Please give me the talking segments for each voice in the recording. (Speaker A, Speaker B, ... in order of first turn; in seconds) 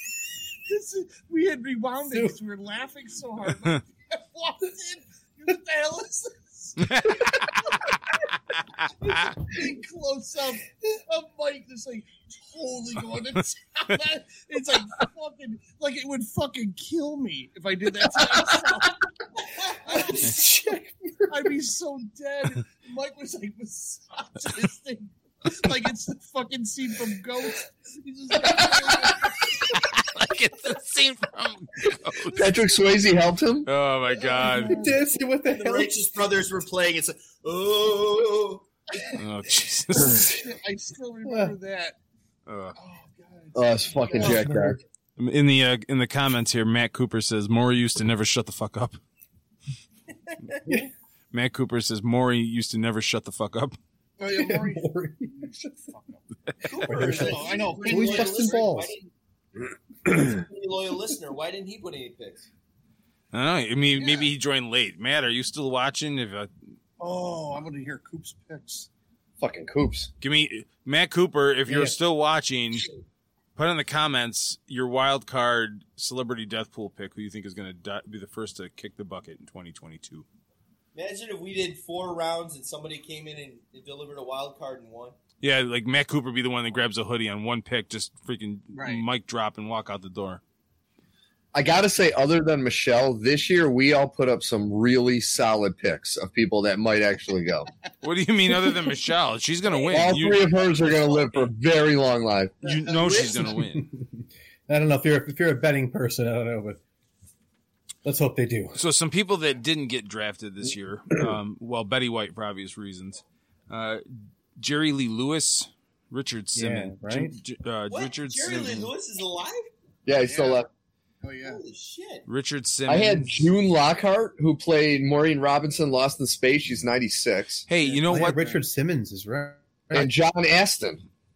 Speaker A: 0.7-6.8, 9.0-20.3, 21.3-29.6, 34.2-35.0, 40.0-42.0, 42.8-44.5, 54.2-58.6, 67.0-68.9, 88.7-89.0, 120.2-120.7, 121.2-121.6, 127.8-128.7
Speaker B: 2.1-2.4, 19.9-21.5, 34.5-36.0, 41.3-41.5, 54.4-55.5, 56.9-59.0, 103.8-104.1, 104.7-106.8, 108.0-108.8, 116.5-117.4, 128.1-130.1
Speaker C: 6.8-7.8, 8.8-9.4, 29.7-32.5, 33.7-34.8, 39.1-40.3, 42.5-42.8, 45.2-49.0, 51.3-53.8, 63.3-66.5, 70.2-72.9, 73.6-80.3, 85.4-90.4, 98.0-100.4, 102.6-103.9, 108.8-118.9, 122.3-123.5, 127.7-128.4
Speaker D: 32.3-33.7, 43.5-44.8, 69.4-70.1, 91.5-97.7, 99.9-102.5, 120.1-120.7, 122.9-127.7, 129.9-131.0
Speaker E: 35.5-38.7, 44.2-44.5, 56.6-59.1, 60.1-62.5, 80.9-85.2, 100.6-101.5, 102.9-103.5, 117.9-119.7, 121.4-122.3